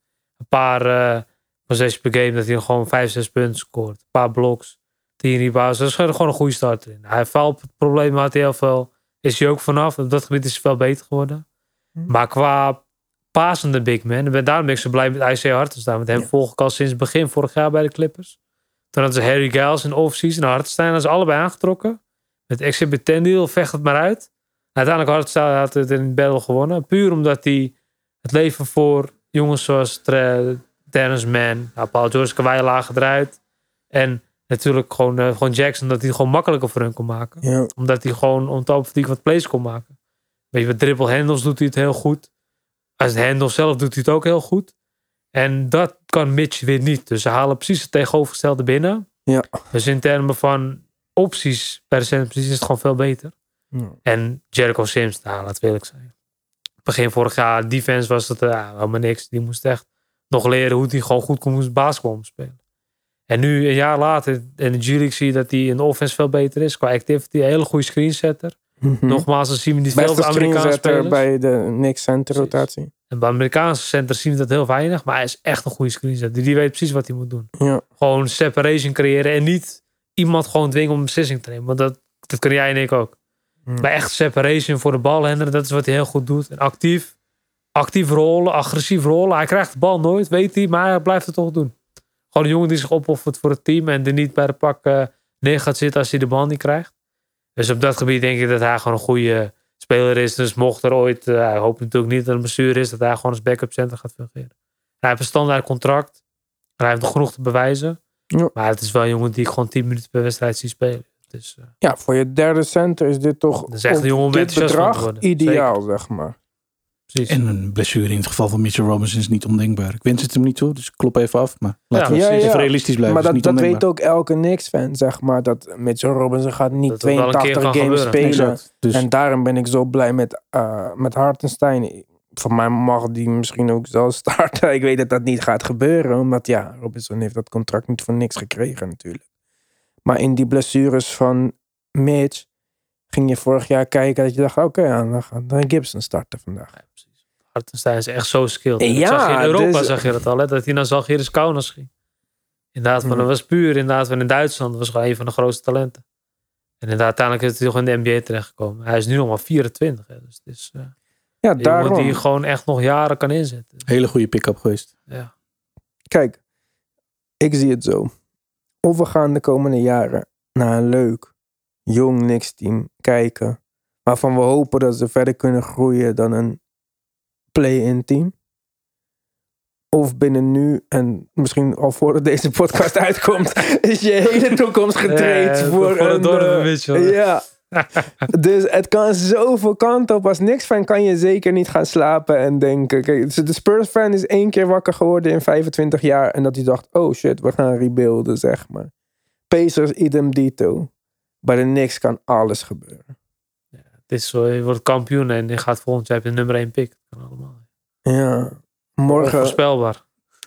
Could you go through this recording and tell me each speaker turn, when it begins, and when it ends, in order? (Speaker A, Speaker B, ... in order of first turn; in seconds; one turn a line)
Speaker A: 0.4-11.4
Speaker A: 12.1-12.8
Speaker A: 13.3-18.4
Speaker A: 18.9-22.0
Speaker A: 22.5-33.4
Speaker A: 33.9-39.9
Speaker B: 37.4-37.7
Speaker A: 40.5-42.3
Speaker A: 43.0-44.7
Speaker A: 45.3-49.1
Speaker A: 49.7-53.3
Speaker A: 54.0-56.1
Speaker A: 56.9-62.6
Speaker A: 63.3-68.6
Speaker B: 68.8-69.2
Speaker A: 69.1-71.2
Speaker B: 69.9-72.9
Speaker A: 72.3-83.2
Speaker A: 83.8-87.1
Speaker A: 87.8-91.7
Speaker A: 92.3-96.9
Speaker A: 97.6-104.5
Speaker A: 105.0-106.2
Speaker A: 106.8-108.0
Speaker A: 108.5-111.7
Speaker B: 111.8-116.4
Speaker A: 113.7-115.7
Speaker A: 117.1-117.4
Speaker C: 117.3-123.8
Speaker A: 121.9-122.5
Speaker B: 122.1-139.2
Speaker A: 126.9-128.3
Speaker C: 128.2-129.1
Speaker B: 140.1-142.5
Speaker B: 143.1-146.7
Speaker A: 147.5-151.9
Speaker B: 148.8-150.0
Speaker A: 152.8-156.0
Speaker A: 156.8-160.9
Speaker B: 161.4-162.2
Speaker A: 161.6-163.8
Speaker C: 163.9-164.9
Speaker B: 166.1-166.4
Speaker B: 167.4-168.1
Speaker B: 168.8-171.3
Speaker B: 171.9-176.6
Speaker B: 177.5-178.3
Speaker B: 179.9-187.4
Speaker A: 185.1-187.2
Speaker A: 187.7-188.0
Speaker B: 188.3-198.9
Speaker B: 199.5-200.9
Speaker B: 201.4-203.1
Speaker A: 203.8-207.6
Speaker B: 208.1-209.6
Speaker A: 209.1-210.0